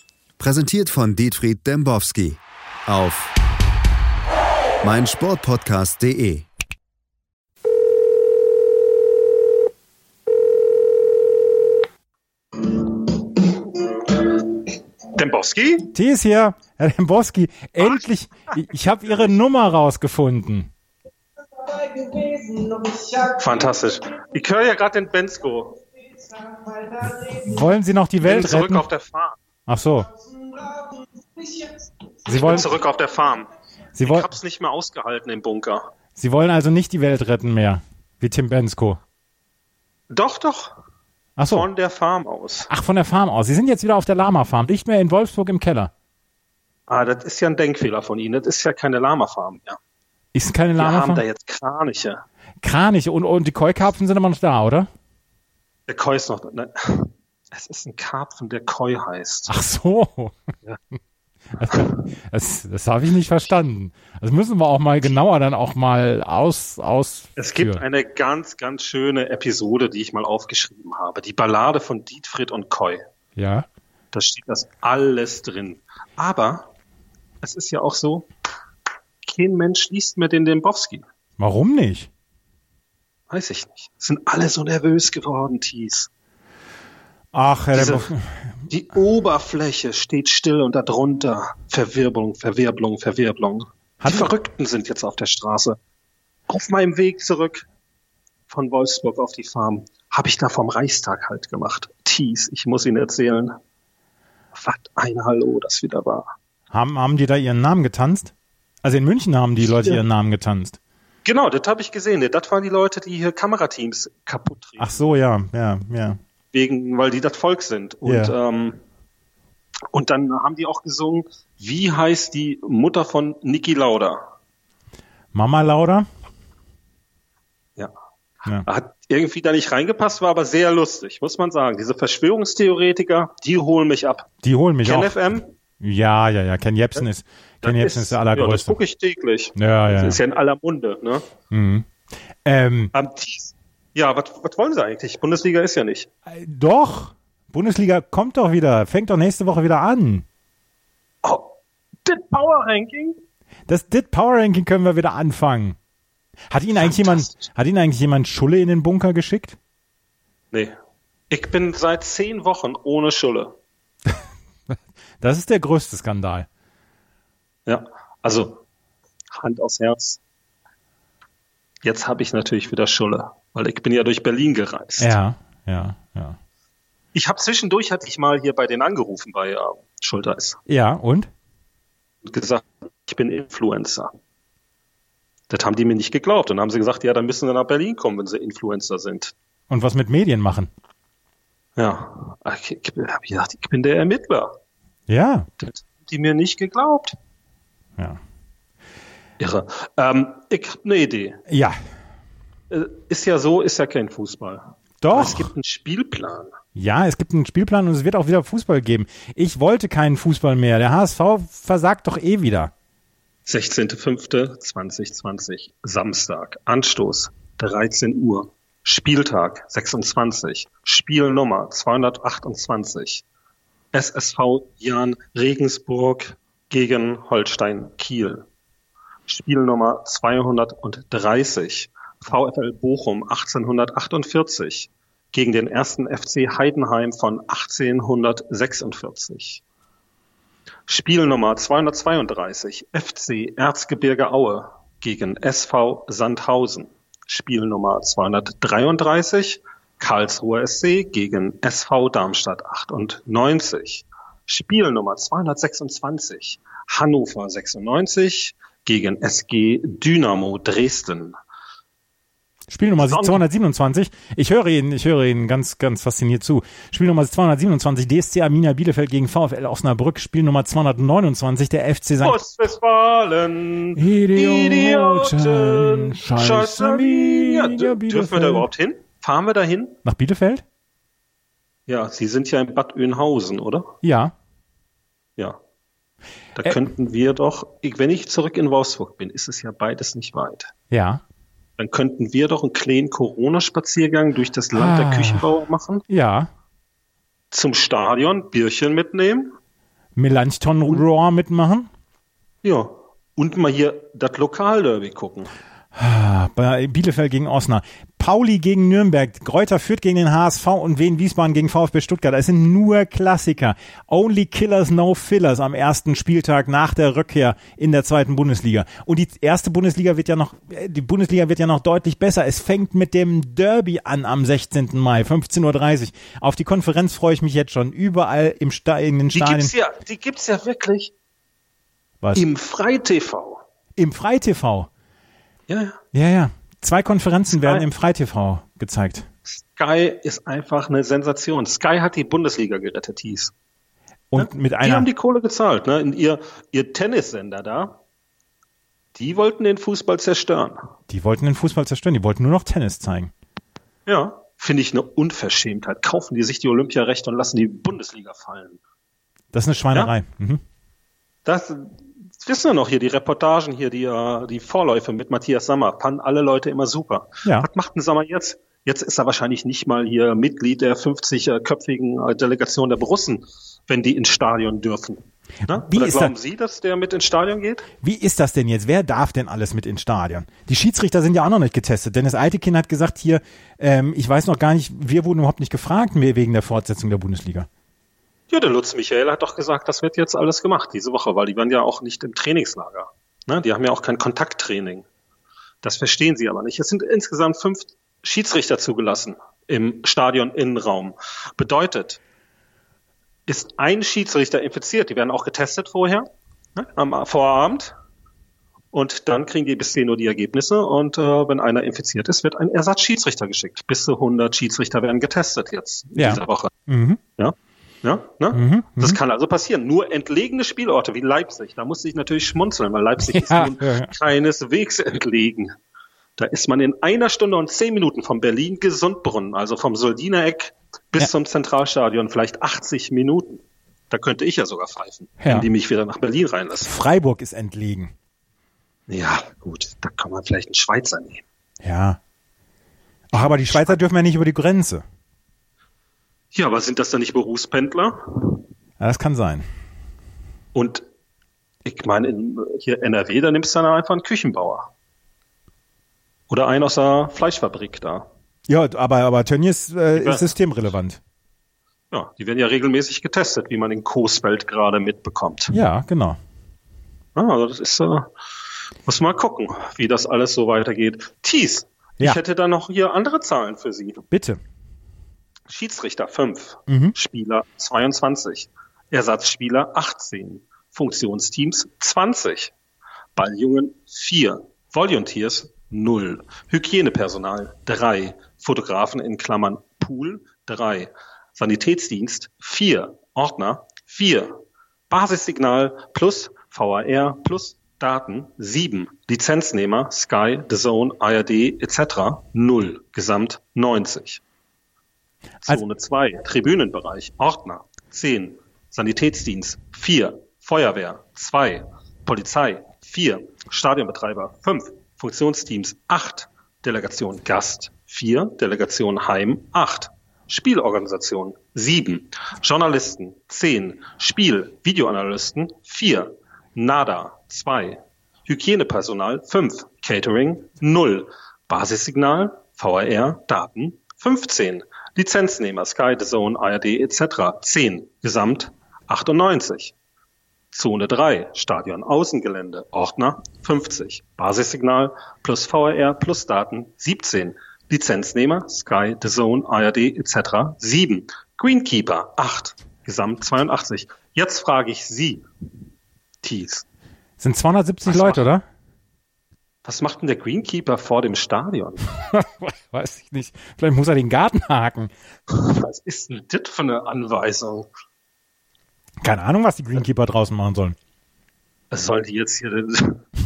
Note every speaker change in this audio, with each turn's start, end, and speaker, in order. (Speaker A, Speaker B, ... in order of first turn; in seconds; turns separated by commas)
Speaker A: 0.4-3.3, Speaker A: 4.8-6.5, Speaker B: 12.7-14.3, Speaker B: 15.2-15.9, Speaker C: 15.9-20.7, Speaker B: 19.1-19.4, Speaker B: 22.0-25.8, Speaker C: 27.3-28.9, Speaker B: 28.2-29.4, Speaker C: 29.7-30.1, Speaker C: 32.3-32.7, Speaker B: 32.3-33.5, Speaker C: 34.0-34.3, Speaker B: 34.0-35.9, Speaker C: 36.2-39.0, Speaker B: 40.1-40.7, Speaker C: 41.4-41.7, Speaker B: 41.5-42.7, Speaker C: 42.7-45.9, Speaker B: 46.9-49.8, Speaker C: 50.3-51.2, Speaker B: 50.8-52.2, Speaker C: 52.6-54.9, Speaker B: 55.9-59.5, Speaker C: 59.5-60.4, Speaker C: 61.5-67.8, Speaker B: 67.4-73.0, Speaker C: 73.4-73.7, Speaker B: 74.1-76.7, Speaker B: 77.4-78.3, Speaker B: 79.2-81.0, Speaker C: 81.4-82.1, Speaker B: 83.3-86.1, Speaker C: 87.3-88.5, Speaker B: 87.7-88.1, Speaker B: 88.7-95.8, Speaker C: 94.0-94.3, Speaker B: 96.5-97.7, Speaker B: 98.5-103.5, Speaker B: 104.5-106.3, Speaker C: 106.7-110.8, Speaker B: 111.2-115.1, Speaker C: 114.8-116.2, Speaker B: 116.5-118.8, Speaker C: 118.0-118.4, Speaker B: 119.9-124.2, Speaker C: 125.3-126.1, Speaker B: 128.6-134.3, Speaker C: 134.4-135.2, Speaker B: 134.8-135.5, Speaker C: 135.8-138.8, Speaker B: 137.6-141.3, Speaker C: 139.6-140.2, Speaker C: 141.5-141.9, Speaker C: 142.4-142.9, Speaker B: 142.9-146.1, Speaker C: 146.3-150.2, Speaker B: 151.2-151.5, Speaker B: 152.1-153.2, Speaker C: 153.7-155.8, Speaker C: 156.5-159.6, Speaker B: 156.7-157.4, Speaker B: 161.3-163.6, Speaker C: 164.7-166.5, Speaker B: 167.7-168.6, Speaker B: 169.3-170.2, Speaker B: 171.8-175.2, Speaker C: 175.0-176.4, Speaker B: 177.1-180.6, Speaker C: 180.7-181.3, Speaker B: 182.2-184.1, Speaker B: 185.5-189.3, Speaker C: 189.7-190.7, Speaker B: 191.8-194.5, Speaker C: 195.1-195.5, Speaker B: 195.6-197.2, Speaker B: 199.4-201.4, Speaker C: 201.5-201.8, Speaker B: 202.7-206.5, Speaker C: 205.0-205.5, Speaker C: 206.8-212.7, Speaker B: 213.5-223.2, Speaker B: 223.9-228.5, Speaker B: 229.3-239.6, Speaker B: 240.9-261.4, Speaker C: 262.7-272.4, Speaker B: 263.0-263.4, Speaker B: 272.2-280.0, Speaker C: 274.0-278.7, Speaker C: 280.1-280.6, Speaker B: 281.9-283.9, Speaker C: 284.0-284.3, Speaker B: 286.6-290.7, Speaker C: 290.9-291.2, Speaker B: 291.8-296.1, Speaker C: 294.7-295.5, Speaker C: 296.1-296.5, Speaker B: 297.5-299.5, Speaker C: 300.2-301.9, Speaker B: 302.6-305.5, Speaker C: 305.9-329.7, Speaker B: 329.3-331.1, Speaker B: 332.3-333.6, Speaker C: 334.0-334.9, Speaker B: 335.7-336.0, Speaker C: 336.1-339.3, Speaker B: 337.5-337.9, Speaker B: 339.8-343.5, Speaker C: 344.3-345.1, Speaker B: 344.4-348.0, Speaker B: 349.1-350.8, Speaker C: 351.1-353.3, Speaker B: 354.1-358.8, Speaker C: 359.5-360.6, Speaker B: 361.4-377.9, Speaker C: 375.7-376.3, Speaker C: 378.0-387.7, Speaker B: 388.5-395.1, Speaker B: 395.8-402.2, Speaker B: 403.5-406.2, Speaker B: 406.8-407.9, Speaker B: 408.9-416.7, Speaker C: 416.2-417.2, Speaker B: 417.4-425.7, Speaker C: 418.5-419.2, Speaker C: 423.2-424.1, Speaker B: 426.4-436.9, Speaker C: 435.4-435.7, Speaker C: 436.8-438.1, Speaker B: 439.1-441.4, Speaker C: 441.8-442.2, Speaker C: 443.3-445.0, Speaker B: 443.3-444.0, Speaker B: 446.5-448.6, Speaker C: 449.0-449.7, Speaker B: 450.7-451.1, Speaker B: 451.9-454.9, Speaker B: 456.5-458.3, Speaker C: 458.7-461.2, Speaker B: 460.2-460.5, Speaker B: 462.1-465.8, Speaker C: 465.7-466.4, Speaker B: 467.4-468.3, Speaker B: 469.1-474.2, Speaker C: 474.3-474.6, Speaker B: 475.7-482.7, Speaker C: 476.9-477.1, Speaker B: 483.4-494.5, Speaker B: 495.1-504.4, Speaker B: 505.6-540.0, Speaker B: 540.7-555.5, Speaker B: 556.4-556.9, Speaker C: 557.4-558.6, Speaker B: 558.1-558.5, Speaker B: 559.8-562.0, Speaker C: 562.3-565.1, Speaker B: 565.5-567.9, Speaker C: 569.2-571.0, Speaker B: 571.9-573.3